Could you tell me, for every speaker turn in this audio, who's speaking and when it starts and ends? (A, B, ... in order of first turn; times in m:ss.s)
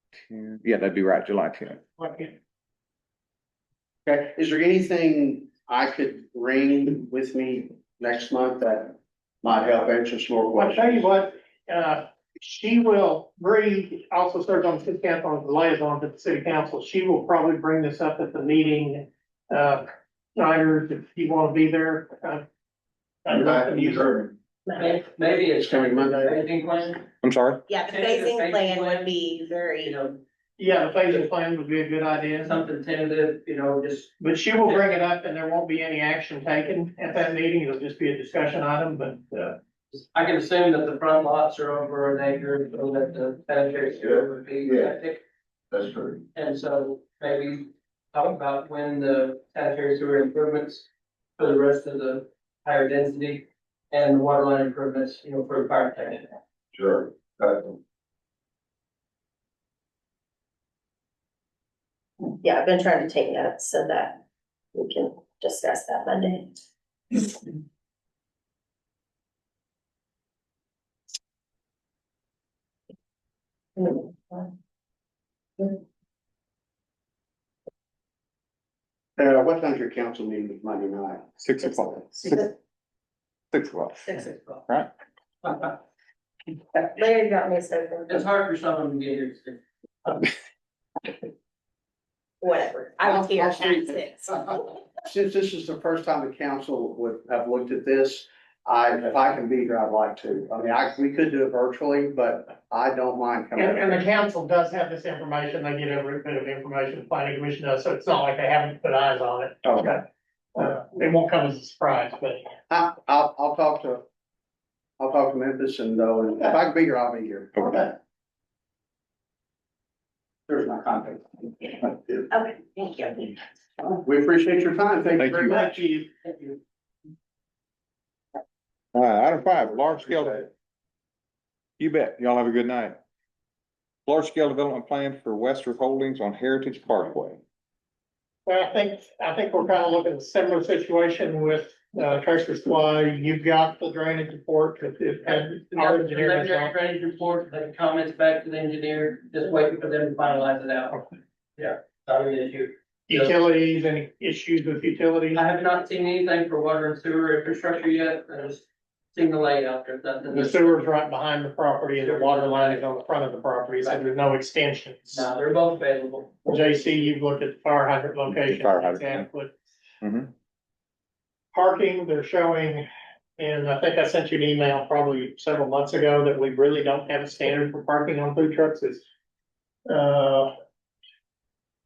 0:00.2-0:01.8 A
0:02.0-0:02.3 B
0:04.1-0:11.0 C
0:10.6-0:19.8 B
0:20.4-0:22.4 B
0:23.2-0:24.2 B
0:24.8-0:27.1 D
0:25.6-0:26.4 C
0:27.2-0:27.6 A
0:27.7-0:30.0 E
0:27.8-0:29.1 D
0:29.8-0:30.2 D
0:30.6-0:32.6 B
0:32.4-0:34.1 D
0:34.2-0:39.6 B
0:39.9-0:45.2 D
0:45.8-0:46.1 C
0:46.3-0:50.9 D
0:51.4-0:56.3 D
1:02.4-1:04.2 E
1:04.7-1:06.6 E
1:13.8-1:14.5 E
1:19.2-1:21.3 C
1:21.4-1:22.5 A
1:23.5-1:24.1 A
1:24.1-1:24.6 E
1:26.7-1:28.3 E
1:28.1-1:29.6 D
1:32.4-1:34.6 E
1:33.0-1:44.1 C
1:43.6-1:50.0 B
1:50.6-1:52.5 B
1:52.7-1:54.0 C
1:55.0-1:58.0 C
2:00.5-2:02.3 C
2:02.3-2:03.3 E
2:03.9-2:05.7 C
2:05.2-2:05.5 A
2:05.4-2:06.1 B
2:06.2-2:06.6 D
2:08.9-2:10.5 A
2:11.8-2:13.0 A
2:14.1-2:17.4 A
2:18.5-2:26.7 B
2:25.3-2:31.0 D
2:31.6-2:33.4 D
2:33.1-2:35.4 B
2:35.3-2:40.8 D
2:40.3-2:45.2 B
2:42.0-2:43.0 D
2:45.1-2:46.4 D
2:46.5-2:49.6 B
2:48.3-2:49.3 A
2:50.0-2:50.3 A
2:51.5-2:52.8 B
2:53.4-2:59.0 B
2:59.9-3:00.5 B